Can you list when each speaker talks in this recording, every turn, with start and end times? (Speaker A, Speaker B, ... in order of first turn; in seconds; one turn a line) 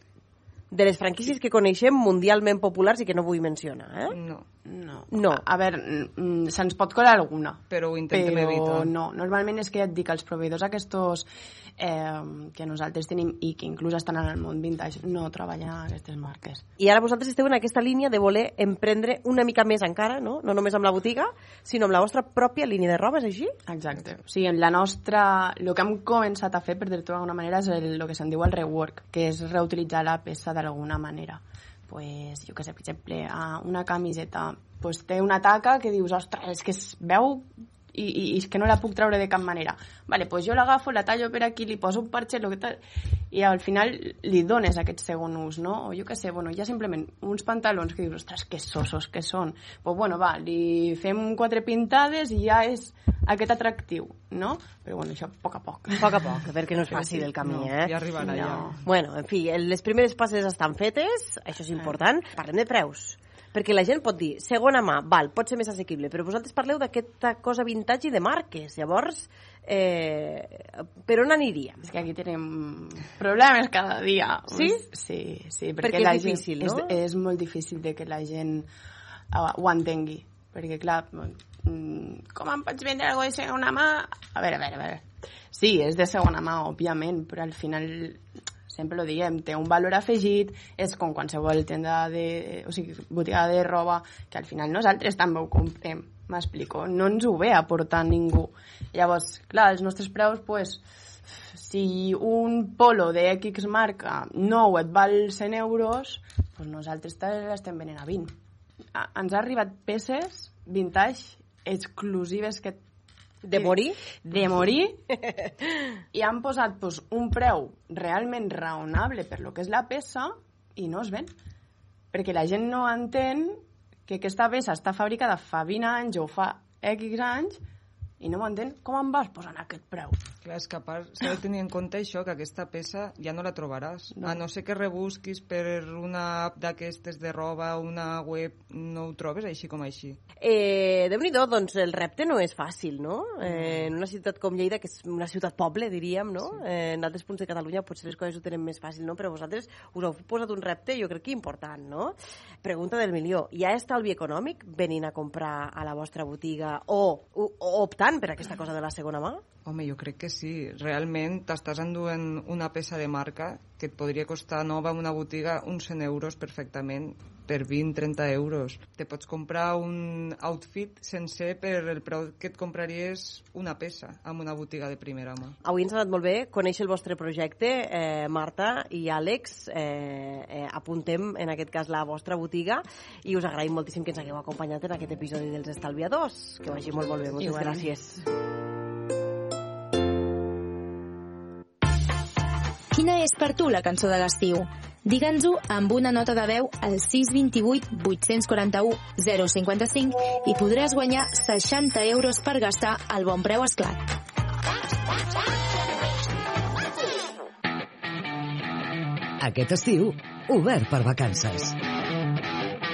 Speaker A: 0.7-4.2
Speaker B: 4.1-4.4
Speaker C: 4.7-16.6
Speaker A: 5.1-5.4
Speaker B: 7.7-8.9
Speaker A: 16.8-23.6
Speaker C: 23.7-42.8
Speaker C: 43.3-56.1
Speaker A: 56.0-71.8
Speaker B: 56.9-58.8
Speaker C: 58.2-58.8
Speaker C: 71.8-78.7
Speaker A: 74.5-74.8
Speaker A: 75.8-77.0
Speaker C: 79.3-100.8
Speaker C: 101.5-108.3
Speaker C: 108.9-112.8
Speaker A: 113.4-114.0
Speaker C: 113.5-115.0
Speaker C: 116.1-121.3
Speaker C: 122.1-127.6
Speaker C: 128.2-130.2
Speaker B: 130.4-140.2
Speaker C: 134.2-134.4
Speaker A: 140.4-159.4
Speaker B: 143.4-143.9
Speaker B: 159.6-175.6
Speaker A: 175.6-188.2
Speaker D: 192.9-204.1
Speaker E: 209.4-211.7